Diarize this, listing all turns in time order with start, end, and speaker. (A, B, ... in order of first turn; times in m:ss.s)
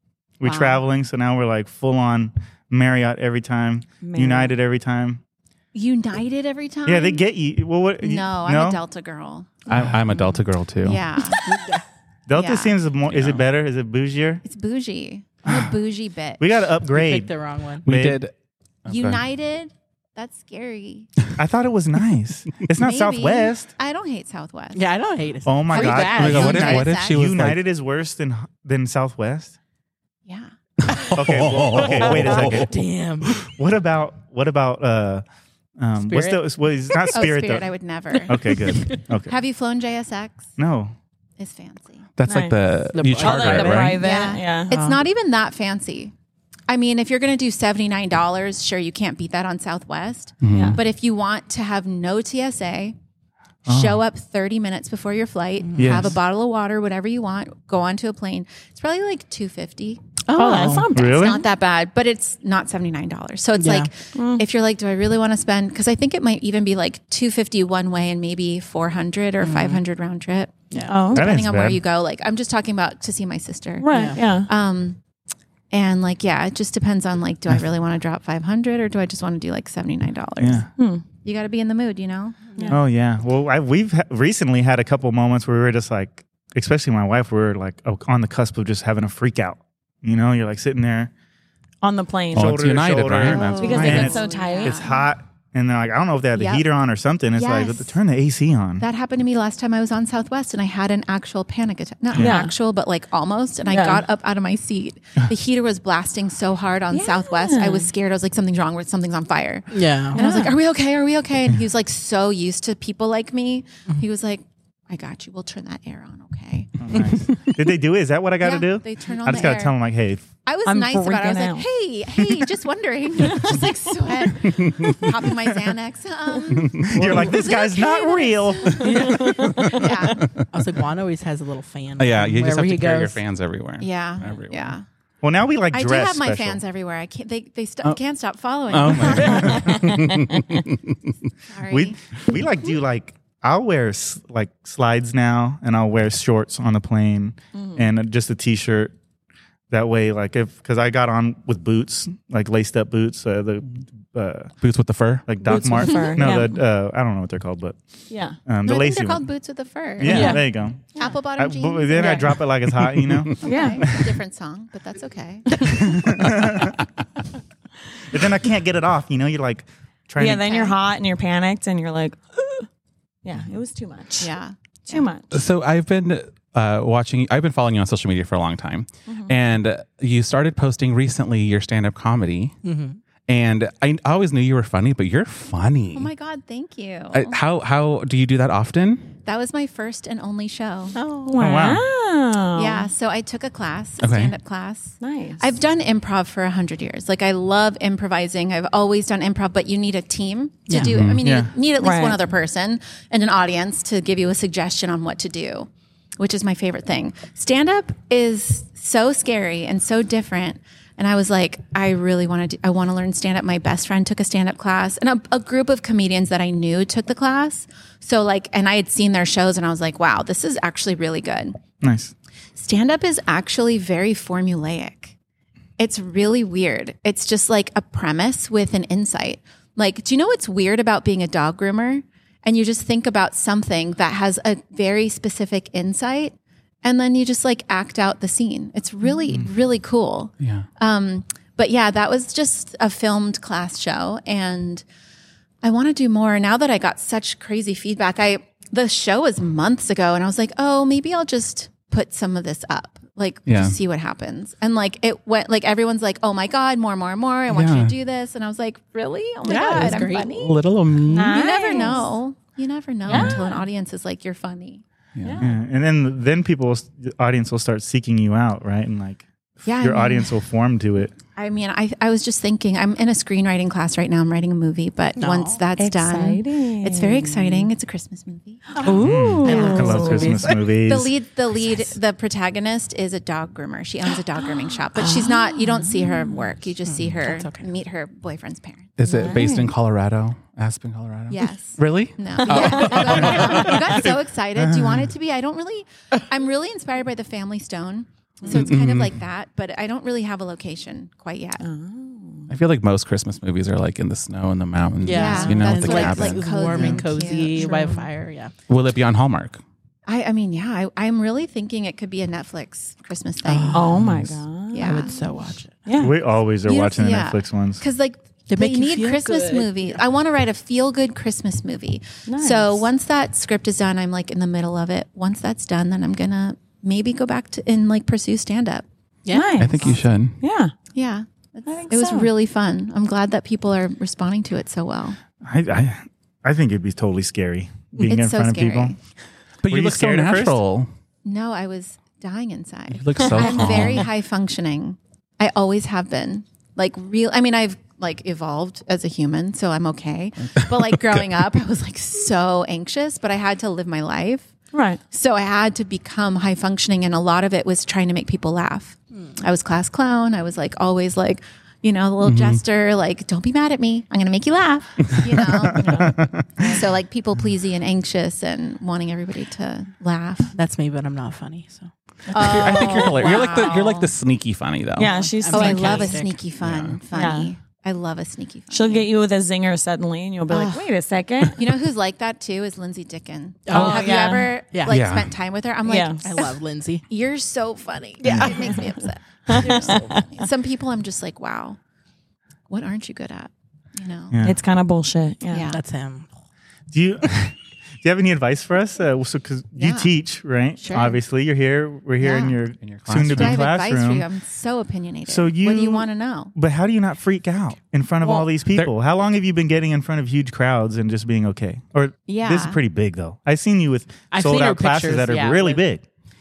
0:00.4-0:05.2 A
0:00.4-0:00.8 B
0:04.0-0:04.5 C
0:05.7-0:07.2 B
0:06.8-0:08.8 A
0:08.0-0:09.5 B
0:09.7-0:11.0 D
0:10.8-0:11.4 B
0:11.4-0:11.8 E
0:12.3-0:14.4 A
0:12.3-0:12.8 B
0:13.1-0:13.4 D
0:14.4-0:16.4 B
0:16.4-0:17.3 A
0:16.9-0:17.9 E
0:17.8-0:18.2 A
0:17.8-0:18.3 D
0:18.9-0:19.2 D
0:18.9-0:21.1 B
0:21.4-0:23.7 A
0:22.8-0:24.8 B
0:24.7-0:26.8 E
0:25.4-0:29.6 A
0:25.7-0:27.2 B
0:26.0-0:27.6 D
0:30.9-0:32.7 D
0:31.2-0:32.8 A
0:31.8-0:33.4 E
0:33.4-0:35.2 A
0:35.8-0:37.7 A
0:36.0-0:36.4 E
0:37.1-0:38.6 B
0:38.2-0:39.0 E
0:38.2-0:39.3 A
0:39.2-0:40.5 B
0:40.6-0:40.9 A
0:41.4-0:42.0 B
0:42.2-0:44.0 D
0:42.2-0:44.7 C
0:42.9-0:44.1 E
0:44.0-0:46.1 B
0:44.7-0:45.0 E
0:46.7-0:53.0 B
0:50.4-0:50.8 D
0:50.5-0:50.8 C
0:53.6-0:54.0 A
0:53.6-1:00.0 B
0:55.7-0:56.1 E
0:55.8-0:56.1 A
1:00.3-1:00.9 E
1:00.4-1:01.4 C
1:00.9-1:01.4 A
1:01.0-1:15.0 B
1:03.6-1:03.9 E
1:04.1-1:04.4 C
1:09.4-1:09.8 E
1:10.7-1:11.0 E
1:10.8-1:11.3 C
1:11.1-1:11.8 A
1:13.8-1:14.5 C
1:13.9-1:14.2 E
1:15.7-1:20.7 B
1:20.4-1:20.7 A
1:20.8-1:21.0 C
1:21.2-1:22.4 B
1:22.7-1:31.1 A
1:31.8-1:32.5 C
1:32.3-1:34.2 D
1:32.3-1:38.8 A
1:33.2-1:35.1 B
1:33.5-1:34.9 C
1:36.4-1:36.6 B
1:37.3-1:38.0 B
1:38.8-1:56.7 B
1:42.2-1:42.5 C
1:43.7-1:44.0 C
1:46.9-1:47.9 C
1:49.7-1:50.2 E
1:50.1-1:50.5 C
1:56.8-2:00.3 A
1:58.4-1:59.8 B
2:00.4-2:10.2 B
2:00.6-2:01.7 C
2:03.2-2:03.6 C
2:04.4-2:05.1 D
2:06.5-2:07.3 D
2:06.8-2:08.9 A
2:08.8-2:10.2 C
2:08.8-2:09.5 E
2:09.2-2:10.5 D
2:10.5-2:13.2 E
2:12.0-2:14.7 D
2:13.8-2:14.8 B
2:15.2-2:16.6 A
2:15.7-2:19.6 B
2:18.7-2:21.1 D
2:18.8-2:19.9 A
2:19.2-2:20.6 C
2:21.5-2:22.0 B
2:21.7-2:28.9 A
2:27.5-2:27.9 C
2:29.7-2:34.5 A
2:34.6-2:35.3 D
2:35.2-2:37.8 A
2:35.4-2:36.6 C
2:38.1-2:38.4 C
2:38.4-2:39.2 A
2:38.6-2:42.3 B
2:40.0-2:40.8 A
2:40.0-2:40.4 E
2:40.0-2:40.4 C
2:41.4-2:44.1 A
2:42.0-2:42.3 C
2:43.0-2:43.4 D
2:43.4-2:45.8 B
2:43.4-2:43.8 C
2:45.8-2:46.8 A
2:46.2-2:46.7 D
2:48.1-2:50.6 A
2:50.2-2:52.7 C
2:53.2-2:54.3 C
2:54.2-2:55.0 B
2:54.9-2:55.4 C
2:55.3-3:02.5 D
2:59.1-2:59.3 C
3:02.6-3:03.0 E
3:03.3-3:06.1 D
3:05.9-3:07.4 B
3:07.1-3:09.1 D
3:09.2-3:11.0 B
3:10.9-3:11.4 E
3:11.2-3:12.9 C
3:11.4-3:11.8 A
3:12.6-3:41.6 B
3:14.0-3:14.4 D
3:15.0-3:15.4 C
3:20.7-3:21.0 E
3:20.8-3:21.2 D
3:21.2-3:21.5 A
3:21.8-3:22.2 C
3:41.8-3:42.1 A
3:42.6-3:45.1 B
3:45.8-4:04.8 B
4:00.4-4:00.7 D
4:05.6-4:24.8 B
4:13.5-4:13.8 D
4:17.5-4:18.0 D
4:19.4-4:20.3 E
4:19.7-4:21.4 D
4:21.1-4:22.1 C
4:23.0-4:23.6 C
4:25.2-4:25.5 D
4:25.2-4:25.5 C
4:25.4-4:31.1 A
4:29.6-4:30.4 B
4:31.3-4:38.9 B
4:35.2-4:35.6 E
4:35.8-4:37.7 C
4:38.7-4:40.6 E
4:38.8-4:40.4 C
4:39.0-4:41.1 A
4:40.8-4:48.9 B
4:44.9-4:46.1 E
4:46.8-4:47.7 E
4:49.0-4:55.0 D
4:49.1-4:49.7 C
4:51.3-5:01.6 B
4:52.4-4:53.8 C
4:58.5-4:59.2 D
5:01.6-5:02.5 C
5:02.5-5:06.5 D
5:05.0-5:08.5 E
5:05.1-5:08.1 B
5:06.7-5:07.0 A
5:08.7-5:09.6 D
5:10.1-5:13.8 B
5:13.4-5:14.0 E
5:13.7-5:15.2 C
5:14.0-5:14.4 D
5:14.7-5:15.2 B
5:14.8-5:15.8 E
5:15.8-5:16.1 C
5:16.0-5:17.8 A
5:16.6-5:28.8 B
5:18.5-5:20.0 E
5:22.3-5:22.8 C
5:29.2-5:30.0 E
5:29.3-5:30.7 C
5:29.6-5:30.4 D
5:30.9-5:35.2 B
5:31.7-5:32.3 C
5:35.4-5:38.9 A
5:38.0-5:39.0 B
5:39.6-5:40.9 D
5:39.7-5:40.6 A
5:41.2-5:54.5 B
5:42.9-5:44.1 D
5:43.2-5:43.8 C
5:50.6-5:51.2 D
5:54.7-5:55.0 C
5:55.1-6:10.5 B
6:02.2-6:02.6 D
6:05.5-6:06.4 A
6:10.5-6:13.3 E
6:12.3-6:14.1 B
6:12.3-6:15.2 D
6:15.0-6:16.2 C
6:15.1-6:16.4 E
6:15.5-6:19.0 B
6:16.6-6:17.0 D
6:17.1-6:17.5 C
6:18.7-6:21.6 C
6:20.5-6:20.9 B
6:21.5-6:26.5 B
6:23.7-6:25.0 E
6:23.7-6:24.5 C
6:24.9-6:25.3 D
6:25.8-6:26.4 C
6:26.2-6:27.0 E
6:27.1-6:31.8 B
6:28.2-6:28.9 E
6:28.2-6:28.5 A
6:29.5-6:30.4 C
6:29.5-6:29.9 E
6:32.7-6:34.4 B
6:34.3-6:34.6 A
6:34.4-6:35.7 C
6:35.5-6:35.8 B
6:35.7-6:36.3 E
6:36.9-6:44.2 A
6:39.8-6:40.1 B
6:40.8-6:41.2 B
6:42.2-6:42.6 B
6:42.8-6:43.7 D
6:43.1-6:46.5 B
6:45.3-6:56.0 A
6:52.3-6:52.8 B
6:54.3-6:55.8 E